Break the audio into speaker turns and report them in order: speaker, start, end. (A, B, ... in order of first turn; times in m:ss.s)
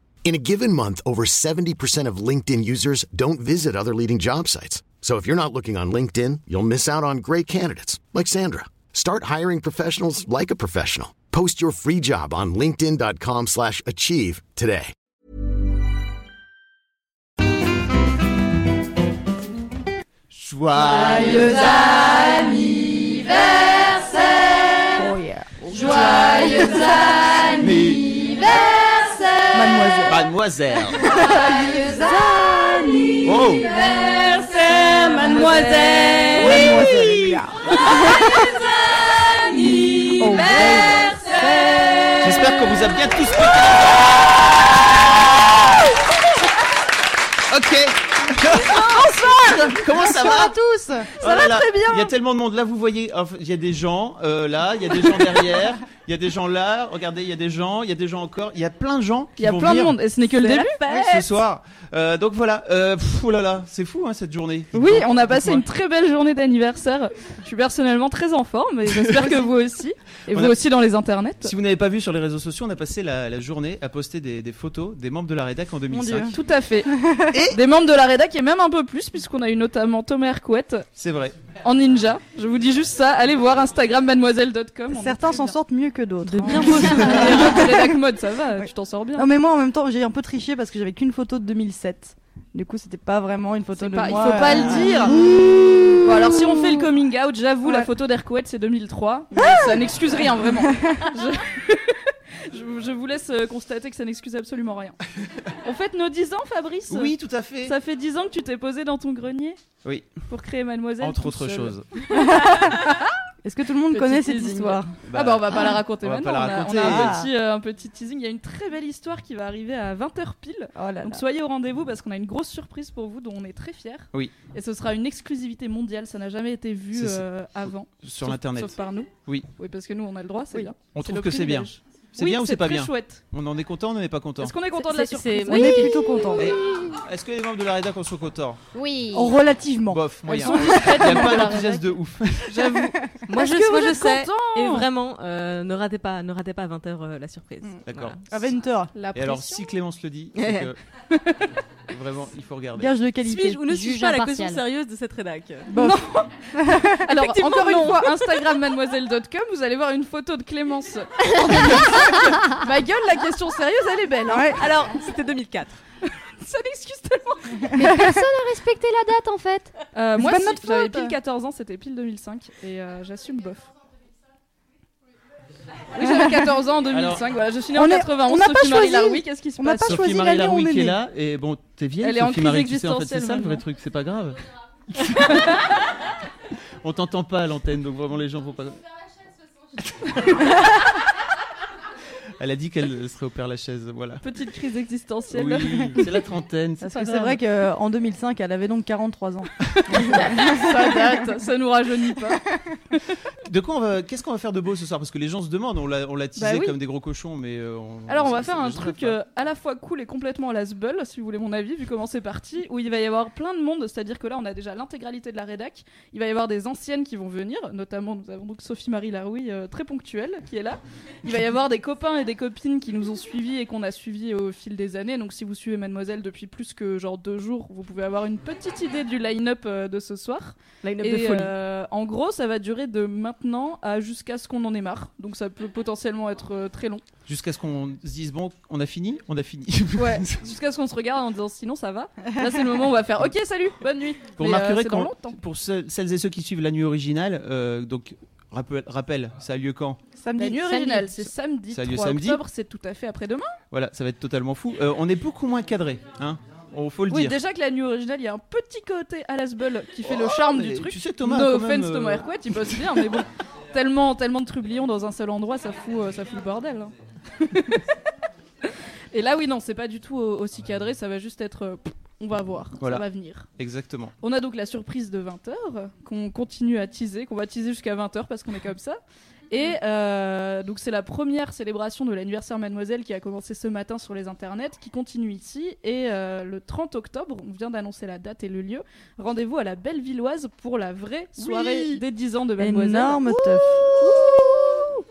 0:00.2-0:14.9 A
0:20.3-0:21.6 B
0:21.2-0:22.8 C
0:24.8-0:27.9 C
0:27.6-0:28.2 B
0:29.5-0:30.3 C
0:30.1-0:31.2 B
0:31.0-0:33.9 C
0:33.2-0:33.7 B
0:34.9-0:38.5 C
0:35.1-0:36.8 D
0:36.1-0:36.4 E
0:36.5-0:36.9 B
0:40.1-0:42.5 C
0:40.3-0:40.9 D
0:42.2-0:44.1 B
0:47.5-0:50.6 B
0:48.5-0:52.1 C
0:51.2-1:00.1 B
0:59.4-1:00.8 D
1:00.5-1:01.3 E
1:00.9-1:05.6 B
1:04.7-1:11.5 D
1:09.1-1:09.5 C
1:10.3-1:10.6 B
1:11.4-1:16.3 B
1:15.9-1:16.4 C
1:16.3-1:16.9 D
1:16.9-1:17.4 C
1:17.3-1:17.6 B
1:17.5-1:20.9 D
1:21.0-1:21.3 B
1:21.6-1:25.6 D
1:24.9-1:28.0 C
1:26.3-1:27.7 E
1:26.4-1:29.3 D
1:28.6-1:36.9 C
1:33.8-1:35.2 D
1:36.0-1:45.0 D
1:37.6-1:37.9 C
1:39.4-1:39.9 C
1:40.6-1:41.0 C
1:45.6-1:49.6 D
1:46.9-1:47.8 B
1:49.8-1:50.2 B
1:50.3-1:53.0 D
1:51.0-1:52.0 B
1:52.1-1:55.0 C
1:53.9-2:13.2 D
1:55.1-1:57.2 B
1:55.6-1:55.8 C
1:56.7-1:57.3 C
2:00.7-2:01.2 C
2:06.9-2:07.3 B
2:07.9-2:09.5 B
2:10.9-2:14.6 B
2:14.4-2:16.0 D
2:15.0-2:16.2 E
2:15.4-2:16.5 C
2:16.4-2:18.6 B
2:18.7-2:19.3 F
2:19.1-2:21.6 C
2:19.9-2:22.8 B
2:20.3-2:21.9 D
2:22.4-2:24.9 D
2:23.3-2:28.2 E
2:27.9-2:28.2 B
2:28.3-2:29.0 C
2:29.0-2:29.6 D
2:29.1-2:30.8 B
2:30.4-2:30.7 E
2:31.9-2:33.0 B
2:32.8-2:33.6 C
2:33.2-2:35.7 E
2:33.6-2:34.6 F
2:35.7-2:38.2 C
2:35.8-2:36.2 D
2:37.0-2:44.6 D
2:44.3-2:44.6 C
2:44.5-2:45.8 E
2:46.4-2:47.8 D
2:47.7-2:49.7 F
2:47.8-2:48.1 C
2:49.9-2:53.7 D
2:50.2-2:51.2 C
2:56.0-3:00.0 D
2:56.9-2:57.3 B
2:57.7-3:01.0 C
2:59.8-3:04.4 B
3:02.0-3:03.6 D
3:04.9-3:05.6 B
3:05.2-3:05.6 D
3:06.8-3:08.8 B
3:09.8-3:10.5 B
3:12.4-3:14.3 B
3:14.2-3:16.0 D
3:15.3-3:17.0 B
3:16.8-3:21.3 C
3:17.1-3:17.4 D
3:19.9-3:22.5 D
3:23.4-3:29.2 B
3:26.4-3:26.8 D
3:28.1-3:57.0 D
3:50.8-3:51.5 E
3:57.3-4:00.4 B
4:00.0-4:05.4 D
4:04.4-4:10.0 B
4:10.2-4:11.3 C
4:10.4-4:13.6 D
4:11.7-4:12.4 B
4:13.7-4:17.4 B
4:17.1-4:27.8 D
4:20.1-4:22.8 B
4:29.1-4:33.5 D
4:32.8-4:33.1 B
4:33.6-4:34.1 B
4:34.2-4:54.8 D
4:51.4-4:52.0 C
4:52.6-4:54.9 C